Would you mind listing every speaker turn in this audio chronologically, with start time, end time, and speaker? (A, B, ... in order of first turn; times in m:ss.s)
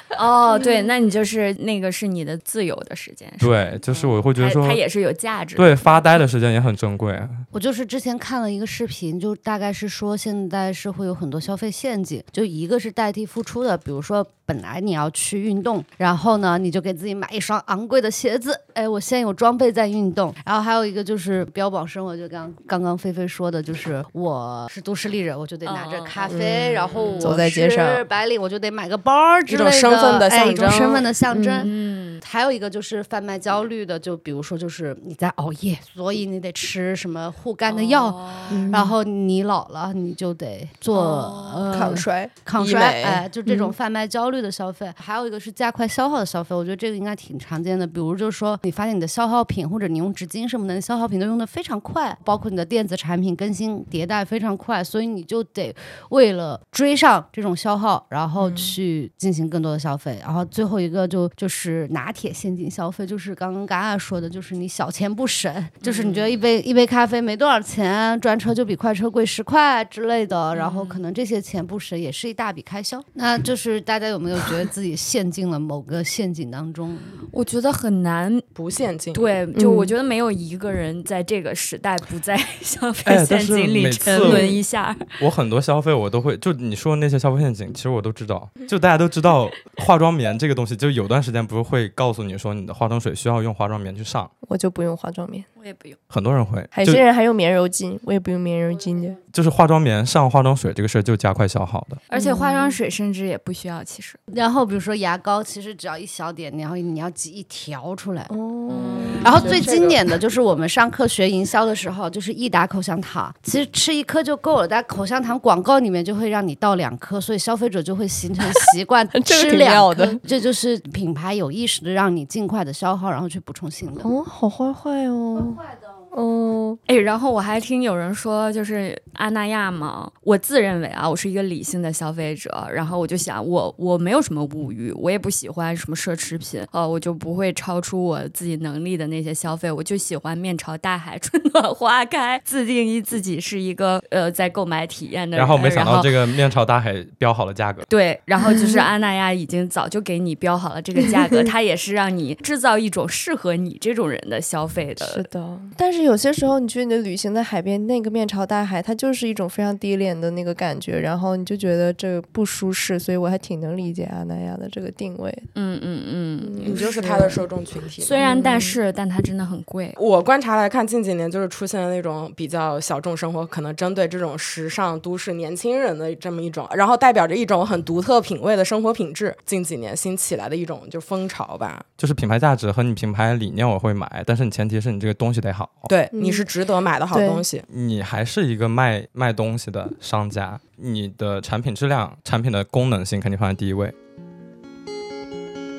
0:00.1-0:05.8 A
0:03.4-0:04.8 B
0:05.6-0:07.4 B
0:07.5-1:17.2 C
0:25.6-0:27.4 A
0:26.3-0:28.0 D
0:29.5-0:31.1 E
0:31.5-0:32.2 A
0:37.7-0:38.7 A
0:38.5-0:39.0 D
0:41.1-0:41.6 A
0:41.6-0:42.3 D
0:42.6-0:43.2 E
0:43.4-0:43.7 D
0:58.4-0:58.7 D
1:05.8-1:06.4 A
1:10.5-1:11.0 A
1:17.3-1:18.5 A
1:18.6-1:19.3 E
1:19.1-1:25.2 A
1:19.5-1:19.9 D
1:23.0-1:24.6 B
1:24.2-1:24.5 D
1:25.2-1:34.3 B
1:34.4-1:35.5 D
1:35.6-1:36.0 A
1:36.1-1:37.0 B
1:36.7-1:39.2 D
1:39.3-1:42.0 B
1:42.1-1:44.2 A
1:42.1-1:42.8 D
1:44.3-1:48.3 C
1:48.3-1:49.9 D
1:48.7-1:49.2 A
1:49.2-2:04.1 C
1:49.4-1:49.9 E
1:59.1-2:00.2 D
2:04.0-2:06.8 D
2:06.9-2:26.3 A
2:25.3-2:27.8 B
2:27.9-2:35.3 A
2:28.4-2:28.9 D
2:31.0-2:31.5 D
2:35.0-2:45.5 D
2:45.5-2:46.9 A
2:46.4-2:47.4 D
2:46.6-2:48.3 E
2:48.0-2:50.0 A
2:48.2-2:48.8 D
2:50.0-3:01.8 E
3:02.0-3:05.9 B
3:05.9-3:07.6 E
3:06.1-3:06.5 D
3:07.1-3:07.4 D
3:07.7-3:13.9 B